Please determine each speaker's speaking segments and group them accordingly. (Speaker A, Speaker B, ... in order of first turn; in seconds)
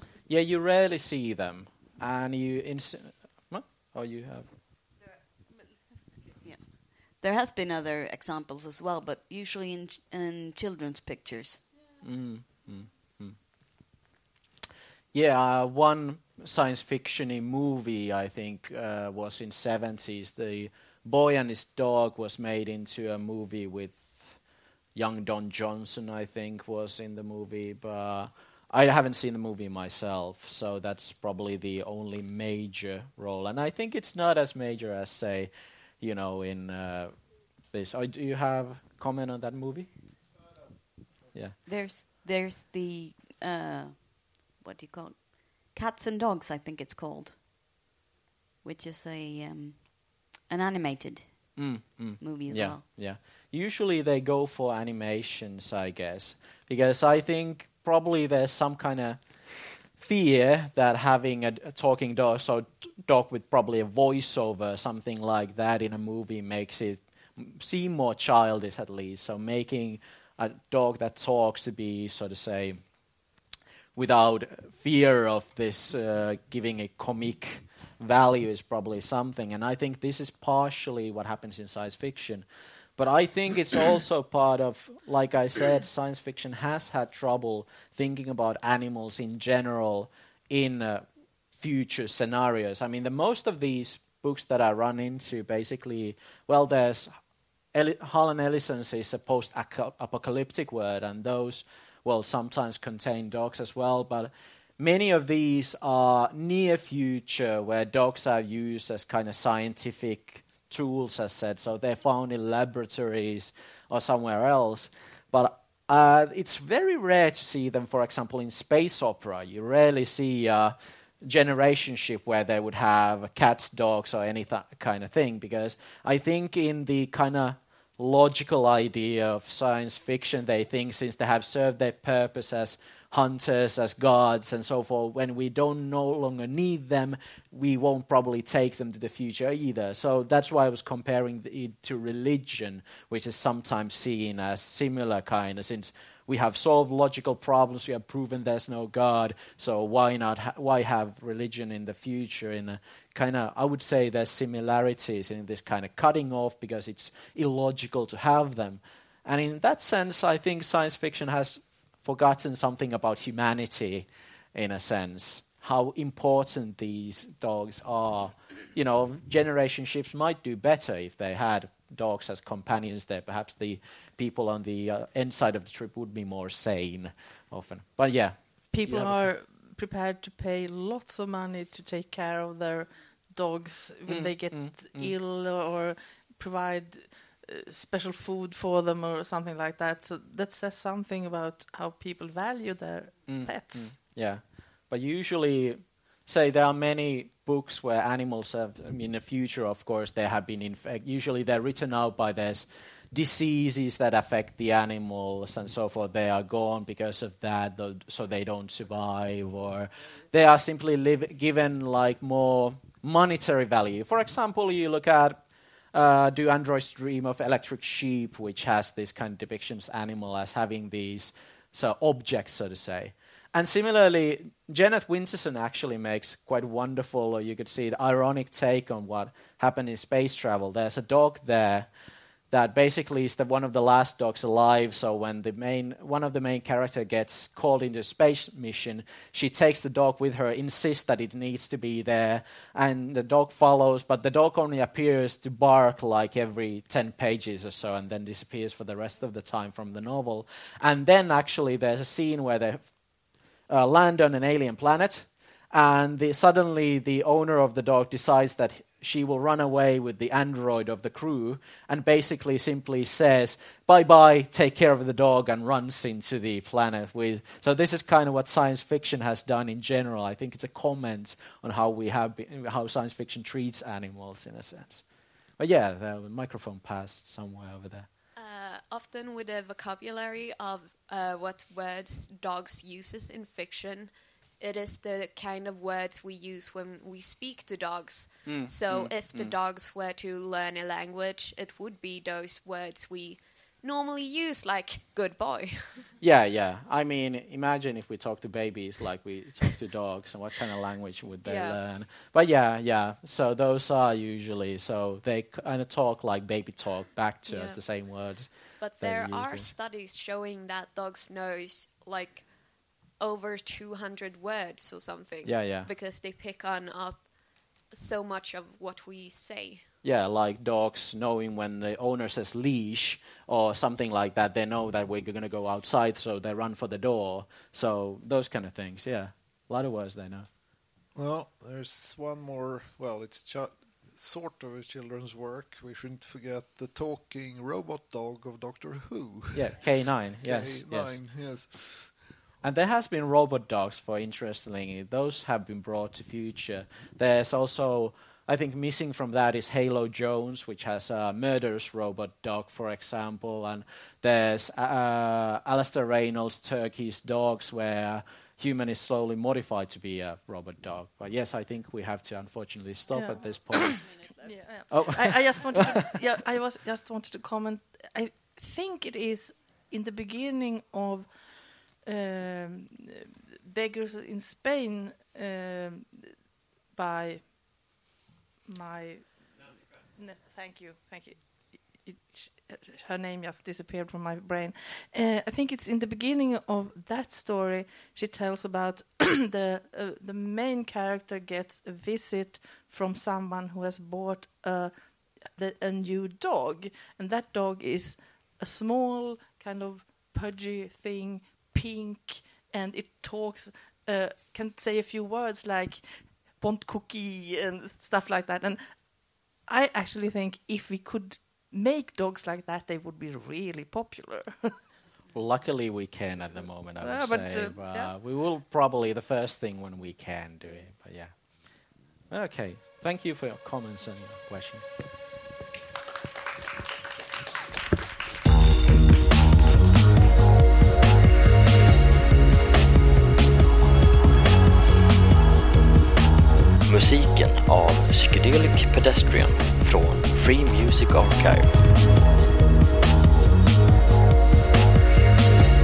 Speaker A: 0.3-4.5, 12.0-13.4, 15.1-24.4, 24.9-35.5, 36.0-39.9, 51.6-59.2, 60.0-72.8, 74.0-82.5, 83.0-97.1, 97.7-179.3, 184.1-185.1, 193.3-215.4, 215.9-231.9, 232.5-252.9, 253.7-275.0, 275.6-278.1, 288.5-289.5, 296.2-309.7, 315.4-315.9, 320.0-330.5, 339.5-341.2, 342.6-364.0, 364.9-366.0, 415.3-425.0
Speaker B: 6.4-11.6, 41.6-47.5, 48.6-52.9
Speaker C: 178.7-194.0, 363.1-376.3, 376.9-377.9, 378.6-414.8, 417.0-418.1
Speaker D: 278.4-296.1, 301.4-301.8, 307.5-307.8, 308.8-312.5, 313.2-317.3, 317.9-319.9
Speaker E: 331.1-342.2
Speaker F: 436.9-441.8